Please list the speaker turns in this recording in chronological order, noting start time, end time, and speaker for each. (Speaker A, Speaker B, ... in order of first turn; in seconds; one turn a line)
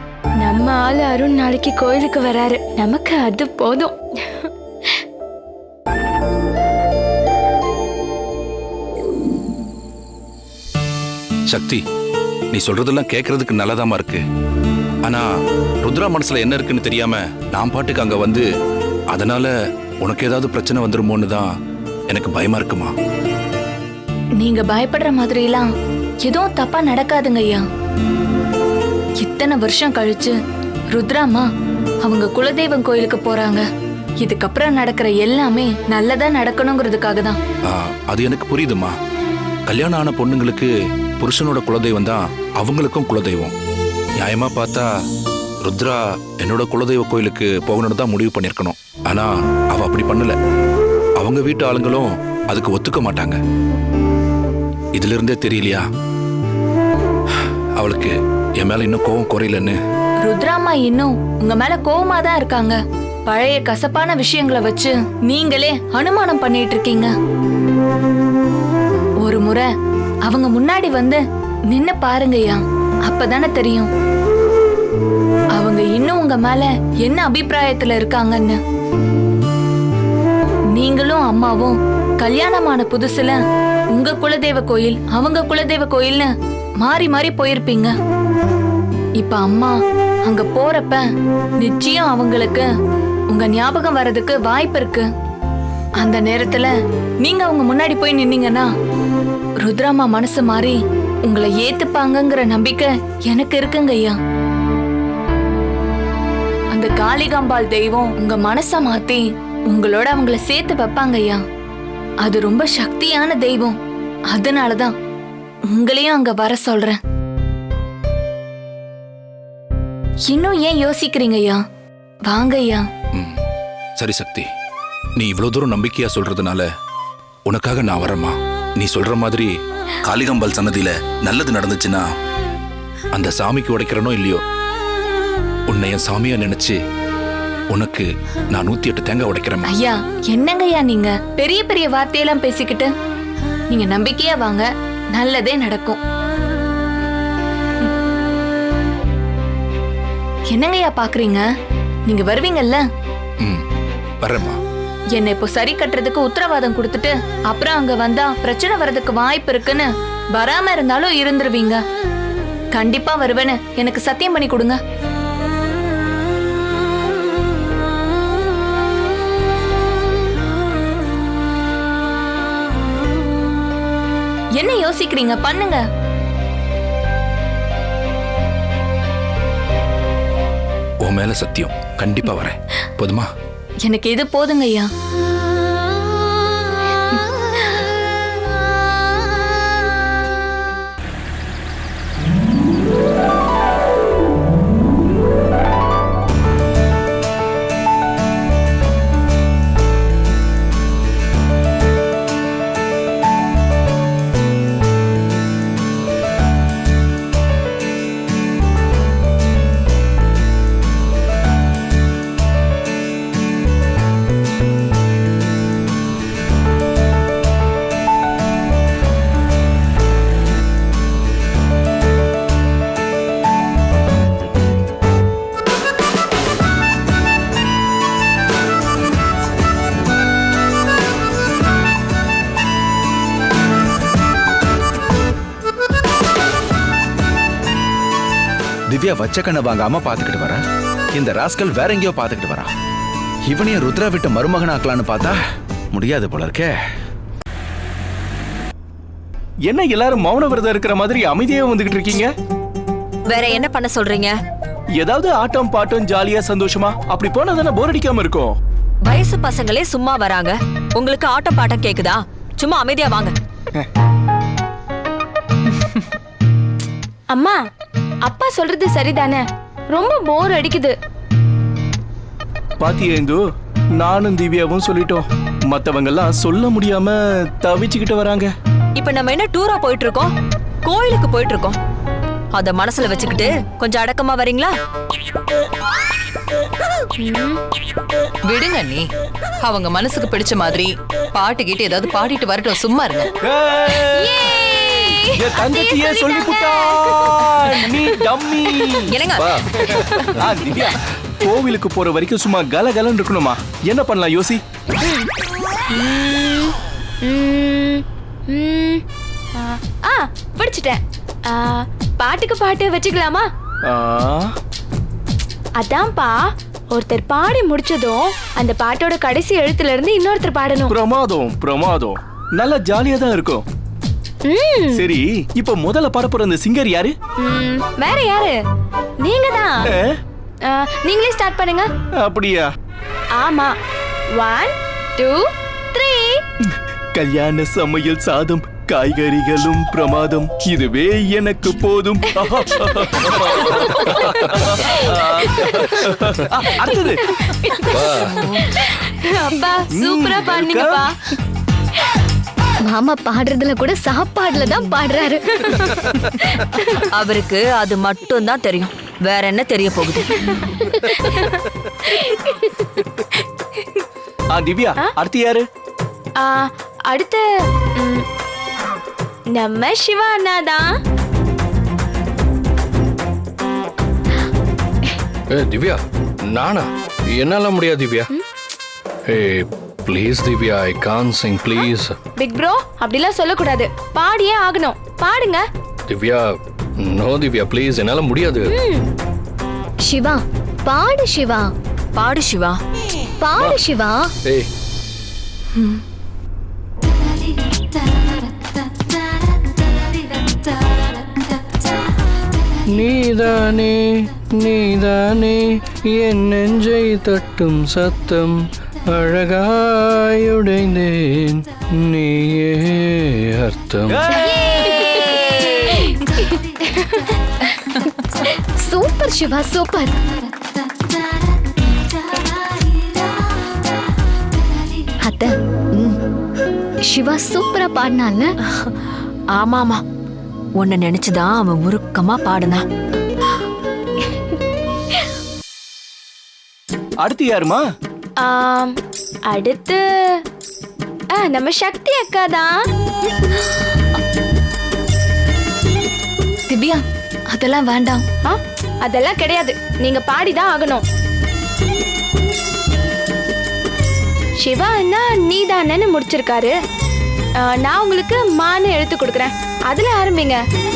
Speaker A: 0.4-4.5
Speaker B: 11.5-11.8
Speaker B: 12.5-14.2
Speaker B: 15.8-18.4
Speaker B: 19.1-19.5
Speaker B: 20.0-21.5
Speaker B: 22.1-22.9
Speaker C: 24.4-25.7
Speaker C: 26.2-27.7
Speaker C: 29.2-30.4
Speaker C: 30.9-31.5
Speaker C: 32.0-33.7
Speaker C: 34.2-37.4
Speaker B: 37.7-38.9
Speaker B: 39.7-43.5
Speaker B: 44.2-44.9
Speaker B: 45.6-50.4
Speaker B: 51.2-53.4
Speaker B: 55.0-55.9
Speaker B: 57.8-59.8
Speaker C: 60.2-67.1
Speaker C: 69.2-69.7
Speaker C: 70.2-73.9
Speaker C: 75.5-78.6
Speaker C: 80.8-83.4
Speaker C: 83.9-88.0
Speaker C: 89.2-91.1
Speaker C: 91.6-92.7
Speaker C: 93.3-95.1
Speaker C: 96.0-96.7
Speaker C: 97.2-98.7
Speaker C: 99.6-104.2
Speaker C: 106.7-111.4
Speaker C: 112.2-113.8
Speaker C: 114.3-114.9
Speaker C: 115.7-117.0
Speaker C: 120.3-121.6
Speaker C: 122.3-122.8
Speaker B: 124.0-124.5
Speaker B: 125.2-126.7
Speaker B: 127.5-129.5
Speaker B: 130.0-132.1
Speaker B: 133.1-134.4
Speaker B: 135.7-136.8
Speaker B: 137.7-139.7
Speaker C: 139.7-142.9
Speaker C: 143.7-146.0
Speaker C: 150.5-151.5
Speaker C: 152.1-152.8
Speaker B: 154.2-154.6
Speaker C: 155.1-161.8
Speaker C: 162.7-164.8
Speaker C: 174.6-175.8
Speaker B: 181.0-183.3
Speaker C: 183.8-184.9
Speaker D: 238.9-240.6
Speaker D: 241.2-242.7
Speaker D: 243.5-245.4
Speaker D: 245.9-246.7
Speaker E: 249.7-252.3
Speaker F: 253.3-254.3
Speaker E: 255.0-258.6
Speaker F: 259.0-263.3
Speaker G: 265.7-266.0
Speaker A: 267.3-267.6
Speaker A: 268.2-270.9
Speaker E: 272.8-273.4
Speaker E: 274.0-278.5
Speaker F: 279.0-280.3
Speaker F: 280.9-281.8
Speaker F: 282.5-284.7
Speaker A: 287.2-287.6
Speaker G: 288.5-289.1
Speaker G: 289.6-293.3
Speaker E: 293.4-294.6
Speaker A: 294.0-297.2
Speaker E: 295.4-299.2
Speaker F: 299.1-299.5
Speaker A: 299.8-300.4
Speaker E: 300.4-304.6
Speaker A: 305.0-305.3
Speaker A: 305.9-309.0
Speaker A: 309.6-313.5
Speaker E: 313.9-314.5
Speaker A: 315.8-316.4
Speaker A: 316.9-320.9
Speaker E: 320.9-323.6
Speaker A: 324.4-325.1
Speaker E: 324.9-327.1
Speaker A: 327.4-328.6
Speaker A: 329.2-329.9
Speaker A: 330.7-331.9
Speaker E: 332.2-332.7
Speaker A: 333.4-333.7
Speaker A: 334.4-336.4
Speaker E: 337.1-347.3
Speaker A: 343.7-346.0
Speaker A: 347.4-348.0
Speaker H: 347.9-348.5
Speaker A: 348.6-351.3
Speaker E: 349.9-351.1
Speaker I: 352.9-355.4
Speaker A: 355.5-357.0
Speaker F: 357.2-360.2
Speaker A: 360.8-362.8
Speaker E: 364.5-365.6
Speaker A: 366.4-367.4
Speaker A: 368.0-368.3
Speaker A: 369.6-370.9
Speaker H: 375.5-376.0
Speaker H: 376.5-378.3
Speaker H: 379.3-382.1
Speaker A: 382.4-385.6
Speaker H: 386.1-386.5
Speaker H: 387.0-388.8
Speaker A: 388.7-389.1
Speaker I: 390.1-391.7
Speaker F: 392.2-392.8
Speaker I: 393.4-394.3
Speaker H: 393.6-393.8
Speaker H: 403.0-408.6
Speaker H: 409.1-414.2
Speaker E: 414.1-416.0
Speaker A: 416.9-417.3
Speaker I: 418.8-420.1
Speaker I: 425.2-426.1
Speaker I: 427.1-428.5
Speaker F: 429.6-430.0
Speaker F: 430.8-432.9
Speaker E: 437.2-437.8
Speaker A: 438.4-438.9
Speaker A: 439.5-440.0
Speaker A: 441.4-442.7
Speaker C: 446.7-448.3
Speaker A: 448.4-451.0
Speaker A: 454.6-456.7
Speaker A: 457.6-460.6